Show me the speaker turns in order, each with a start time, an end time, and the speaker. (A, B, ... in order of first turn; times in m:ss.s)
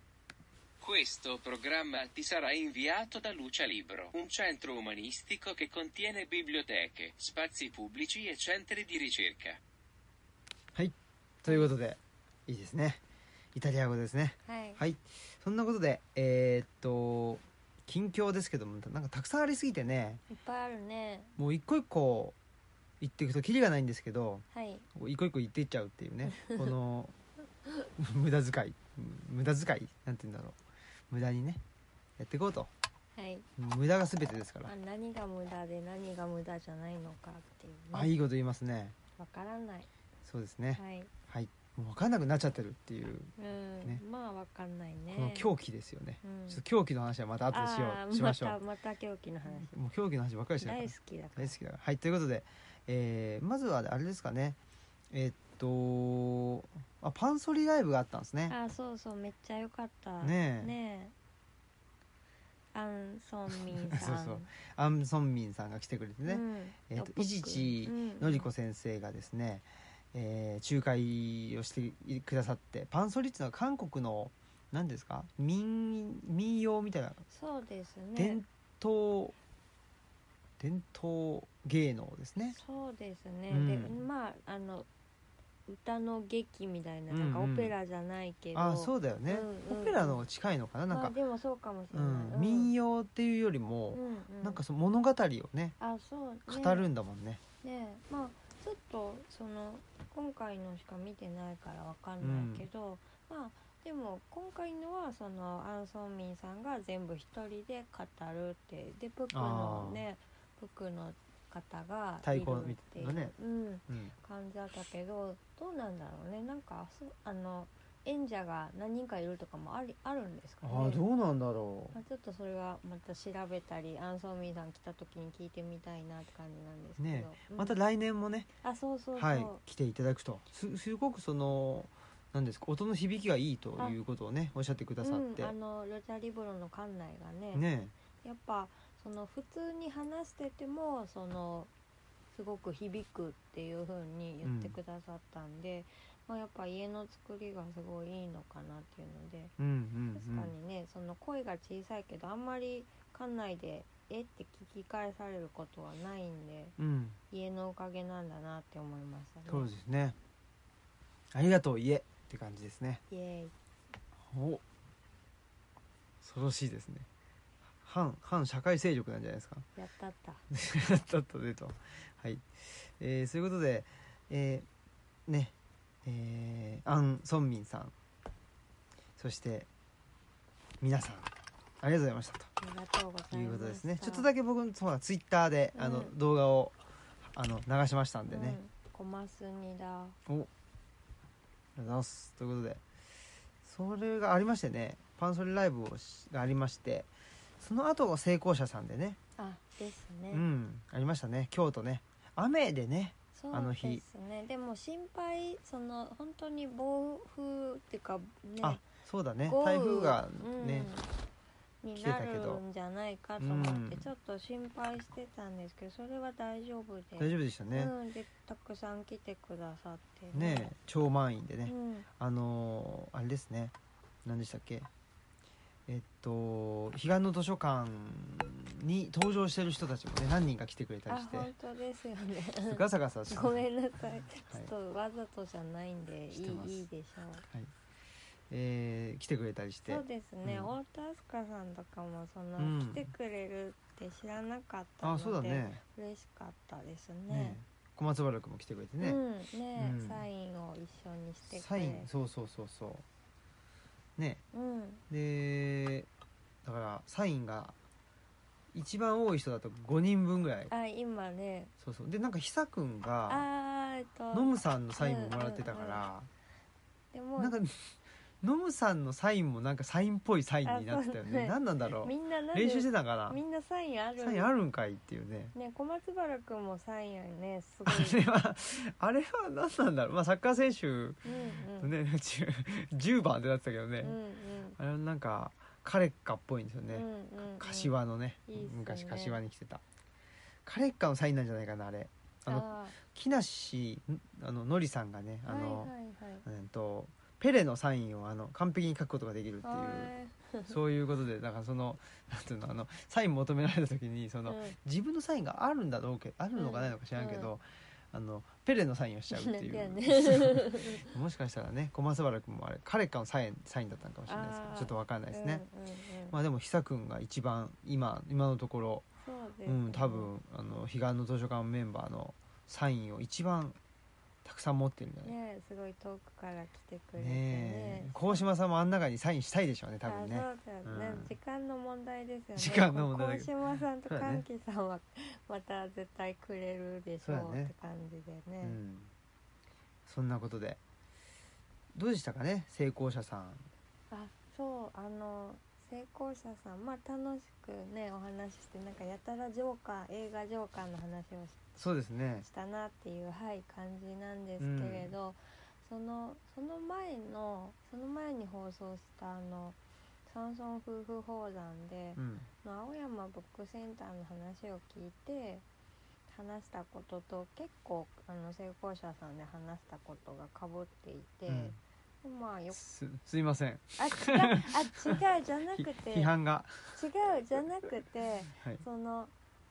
0:00.8-0:09.6 A
0:10.7-0:13.0 B
0:13.5-0:20.2 B
0:14.4-0:14.8 C
0:20.3-0:21.3 C
0:21.4-0:22.3 B
0:23.0-0:27.1 B
0:24.5-0:24.8 C
0:26.3-0:26.7 C
0:28.0-0:30.6 B
0:31.1-0:31.6 B
0:32.2-0:32.7 B
0:33.2-0:33.4 C
0:33.6-0:34.7 B
0:34.7-0:38.1 C
0:37.9-0:38.9 B
0:39.2-0:39.9 C
0:40.2-0:44.0 B
0:40.7-0:41.1 C
0:43.4-0:45.5 C
0:45.1-0:48.6 B
0:46.2-0:46.6 C
0:47.5-0:49.7 C
0:49.5-0:54.6 B
0:50.6-0:51.6 C
0:55.1-0:58.6 B
0:58.5-1:01.1 C
1:00.2-1:00.7 B
1:02.7-1:04.5 C
1:03.5-1:17.2 B
1:06.2-1:08.5 C
1:17.3-1:18.4 C
1:18.2-1:19.3 B
1:20.6-1:22.6 B
1:22.5-1:24.9 C
1:23.5-1:24.0 B
1:25.7-1:30.2 C
1:27.1-1:27.7 B
1:28.5-1:31.2 B
1:30.9-1:32.7 C
1:31.9-1:35.8 B
1:33.9-1:34.6 C
1:35.8-1:36.9 C
1:36.5-1:37.4 B
1:37.6-2:01.0 C
1:42.2-1:42.7 B
1:49.3-1:50.0 B
1:52.2-1:53.3 B
1:53.9-1:54.1 B
2:00.6-2:02.0 B
2:01.9-2:07.8 C
2:07.0-2:08.5 B
2:08.6-2:09.6 C
2:09.2-2:15.5 B
2:15.0-2:17.6 C
2:17.5-2:17.9 B
2:18.2-2:21.7 C
2:22.3-2:29.5 C
2:24.4-2:24.8 B
2:29.6-2:30.5 B
2:30.1-2:36.8 C
2:36.8-2:37.2 B
2:37.3-2:39.7 C
2:39.5-2:40.1 B
2:41.3-2:43.0 B
2:43.1-2:43.5 C
2:44.2-2:44.6 B
2:46.2-2:47.1 B
2:47.8-2:49.6 B
2:49.8-2:50.4 C
2:50.5-2:54.6 B
2:55.3-2:57.9 B
2:59.2-2:59.7 B
3:00.8-3:02.5 B
3:02.6-3:04.3 C
3:03.3-3:08.6 B
3:05.7-3:06.1 C
3:08.3-3:10.2 C
3:11.8-3:12.8 B
3:13.6-3:17.1 B
3:17.6-3:19.2 B
3:19.4-3:20.5 C
3:20.3-3:24.0 B
3:23.3-3:28.8 C
3:28.6-3:30.9 B
3:29.5-3:31.1 C
3:31.8-3:40.7 C
3:32.0-3:32.6 B
3:33.4-3:34.1 B
3:37.2-3:37.9 B
3:40.3-3:43.7 B
3:41.6-3:42.1 C
3:44.2-3:44.9 B
3:45.9-3:51.5 B
3:51.1-3:57.4 C
3:52.6-3:53.6 B
3:56.3-3:56.8 B
3:57.4-3:57.7 B
3:58.5-4:00.7 B
3:59.9-4:07.6 C
4:02.6-4:03.1 B
4:05.0-4:05.8 B
4:07.3-4:09.2 B
4:09.0-4:12.1 C
4:09.8-4:10.2 B
4:11.5-4:13.0 B
4:14.2-4:14.4 B
4:14.5-4:15.0 C
4:15.1-4:16.1 B
4:16.6-4:17.7 B
4:18.7-4:20.7 B
4:20.7-4:21.7 C
4:21.8-4:23.5 B
4:23.3-4:26.1 C
4:24.3-4:26.3 B
4:27.1-4:27.6 C
4:27.4-4:33.4 B
4:30.6-4:34.5 C
4:34.2-4:35.5 B
4:35.5-4:38.2 C
4:37.8-4:44.2 B
4:41.2-4:41.9 C
4:44.0-4:44.8 C
4:44.8-4:49.8 B
4:46.9-4:47.9 C
4:48.5-4:49.4 C
4:50.6-4:55.9 B
4:52.4-4:53.0 C
4:55.4-4:56.4 C
4:56.4-5:00.1 B
4:59.6-5:00.8 C
5:00.7-5:15.6 B
5:04.4-5:04.8 C
5:06.6-5:07.5 C
5:09.3-5:11.1 C
5:14.3-5:16.4 C
5:16.3-5:19.0 B
5:19.2-5:20.3 C
5:19.6-5:23.8 B
5:24.4-5:25.3 B
5:25.2-5:28.4 C
5:27.2-5:31.3 B
5:30.0-5:38.8 C
5:32.6-5:33.5 B
5:34.1-5:34.4 B
5:37.2-5:37.7 B
5:38.6-5:39.1 B
5:40.0-5:40.8 B
5:41.9-5:43.7 B
5:44.1-5:51.8 C
5:51.8-5:52.5 B
5:52.4-6:05.6 C
5:54.6-5:55.1 B
6:02.2-6:02.5 B
6:06.3-6:12.8 C
6:11.5-6:11.8 B
6:12.7-6:15.2 B
6:14.0-6:16.3 C
6:15.7-6:17.0 B
6:16.9-6:19.3 C
6:18.6-6:18.8 B